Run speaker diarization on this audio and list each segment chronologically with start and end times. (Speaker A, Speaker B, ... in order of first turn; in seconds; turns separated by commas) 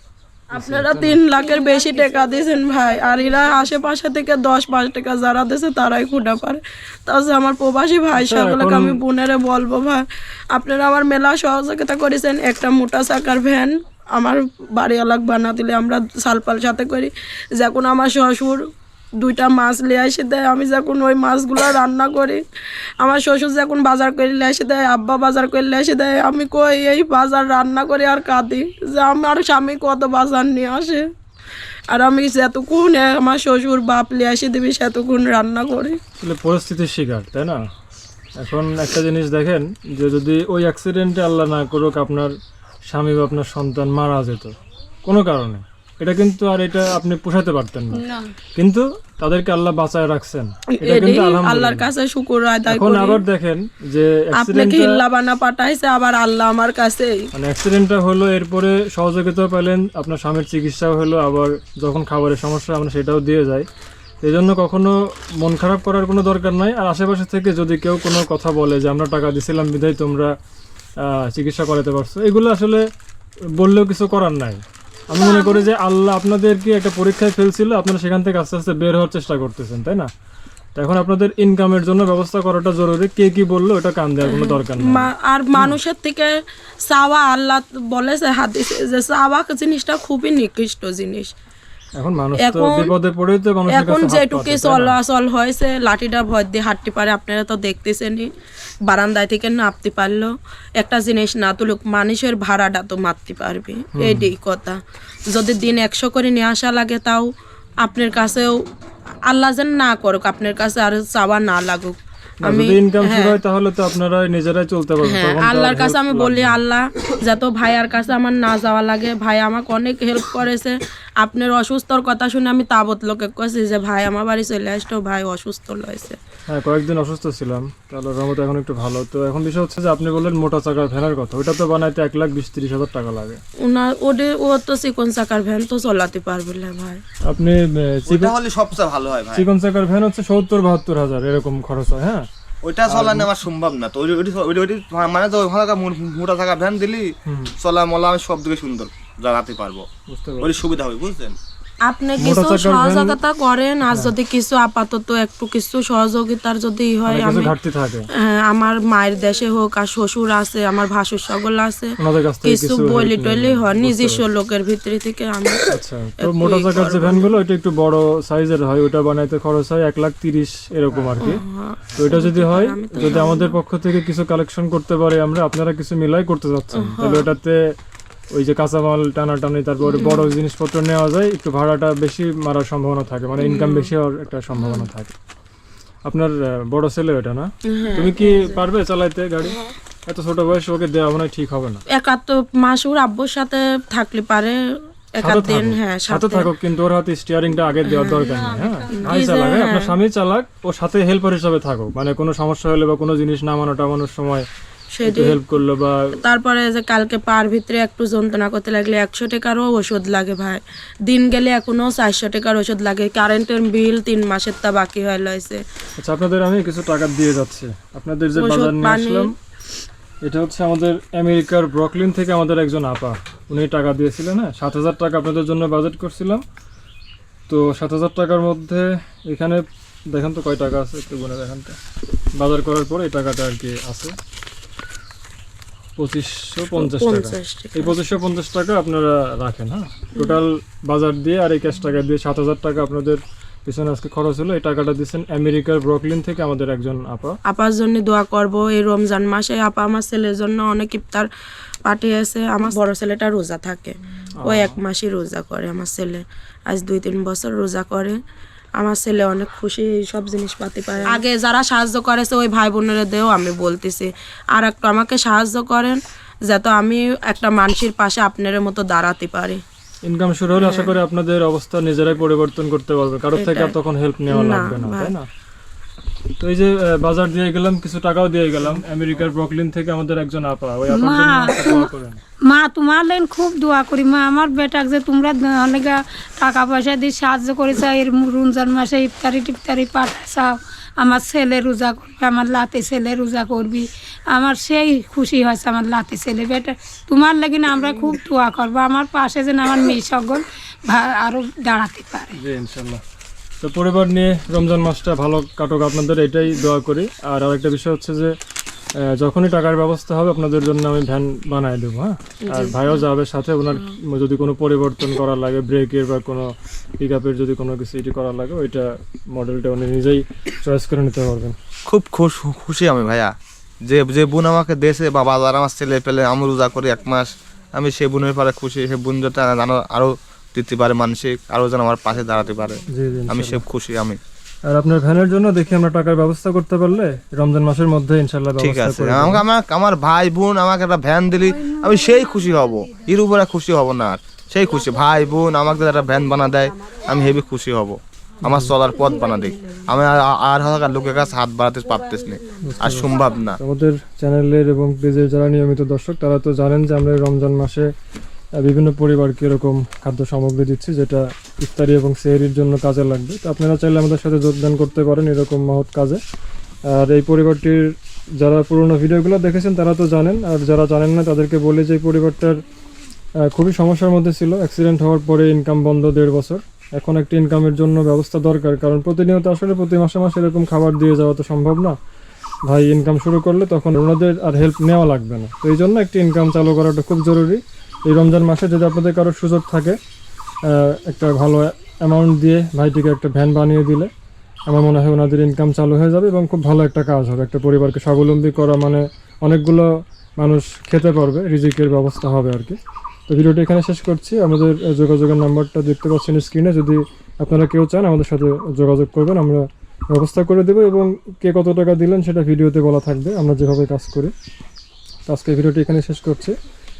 Speaker A: 0.5-1.2, Speaker B: 0.5-18.6, Speaker C: 1.3-3.8, Speaker A: 8.1-9.0, Speaker B: 19.2-22.4, Speaker B: 23.0-31.1, Speaker B: 31.9-36.0, Speaker A: 36.2-37.6, Speaker A: 38.4-42.3, Speaker A: 42.9-44.5, Speaker A: 45.0-48.0, Speaker C: 47.9-48.3, Speaker A: 48.5-51.9, Speaker B: 50.8-53.2, Speaker A: 52.7-55.0, Speaker B: 54.4-57.1, Speaker A: 57.3-63.7, Speaker A: 64.2-70.3, Speaker A: 71.0-72.8, Speaker A: 73.6-80.1, Speaker B: 75.2-75.6, Speaker A: 80.8-85.8, Speaker B: 84.2-86.3, Speaker B: 86.9-91.3, Speaker A: 92.0-95.0, Speaker B: 92.4-92.9, Speaker B: 93.7-98.3, Speaker B: 98.9-107.3, Speaker A: 104.0-104.3, Speaker B: 107.8-108.6, Speaker B: 109.3-113.4, Speaker A: 112.4-116.6, Speaker B: 115.0-126.2, Speaker A: 126.5-133.4, Speaker B: 133.7-137.0, Speaker A: 137.3-138.3, Speaker D: 138.1-139.5, Speaker A: 139.3-142.3, Speaker D: 142.6-149.9, Speaker A: 142.9-143.3, Speaker A: 147.3-147.5, Speaker A: 150.1-150.5, Speaker D: 150.4-151.4, Speaker B: 151.8-157.6, Speaker A: 152.2-153.2, Speaker A: 157.1-158.1, Speaker B: 158.2-167.3, Speaker A: 162.0-164.2, Speaker A: 165.7-171.4, Speaker B: 171.2-173.6, Speaker A: 171.9-177.6, Speaker B: 176.8-177.3, Speaker A: 178.3-185.1, Speaker B: 179.8-180.3, Speaker B: 183.4-183.9, Speaker B: 184.5-184.9, Speaker A: 186.1-191.8, Speaker B: 187.7-188.6, Speaker B: 191.9-194.6, Speaker B: 195.2-196.5, Speaker A: 195.2-204.5, Speaker B: 197.9-198.2, Speaker C: 198.2-199.2, Speaker B: 199.0-199.9, Speaker B: 205.0-205.4, Speaker A: 205.0-206.2, Speaker B: 206.2-215.6, Speaker A: 216.0-219.3, Speaker B: 218.3-219.3, Speaker A: 220.2-226.4, Speaker A: 227.5-231.8, Speaker A: 232.4-234.2, Speaker A: 236.0-247.4, Speaker B: 236.7-237.9, Speaker B: 247.5-251.3, Speaker B: 251.9-258.2, Speaker A: 254.4-254.8, Speaker B: 258.8-269.6, Speaker A: 270.1-275.2, Speaker B: 270.6-271.0, Speaker B: 273.4-273.7, Speaker B: 274.3-275.1, Speaker A: 276.4-282.2, Speaker C: 280.9-281.9, Speaker C: 282.5-302.4, Speaker A: 302.3-303.0, Speaker A: 303.6-308.3, Speaker A: 309.0-321.6, Speaker B: 312.4-313.0, Speaker D: 321.9-323.3, Speaker D: 323.9-334.2, Speaker A: 332.9-333.6, Speaker A: 334.7-339.4, Speaker D: 338.6-353.6, Speaker A: 348.4-348.8, Speaker A: 352.6-357.9, Speaker A: 358.6-366.2, Speaker A: 366.9-372.6, Speaker A: 373.5-381.9, Speaker A: 382.7-390.0, Speaker A: 390.7-394.1, Speaker A: 394.7-402.8, Speaker A: 403.3-414.3, Speaker A: 415.3-416.6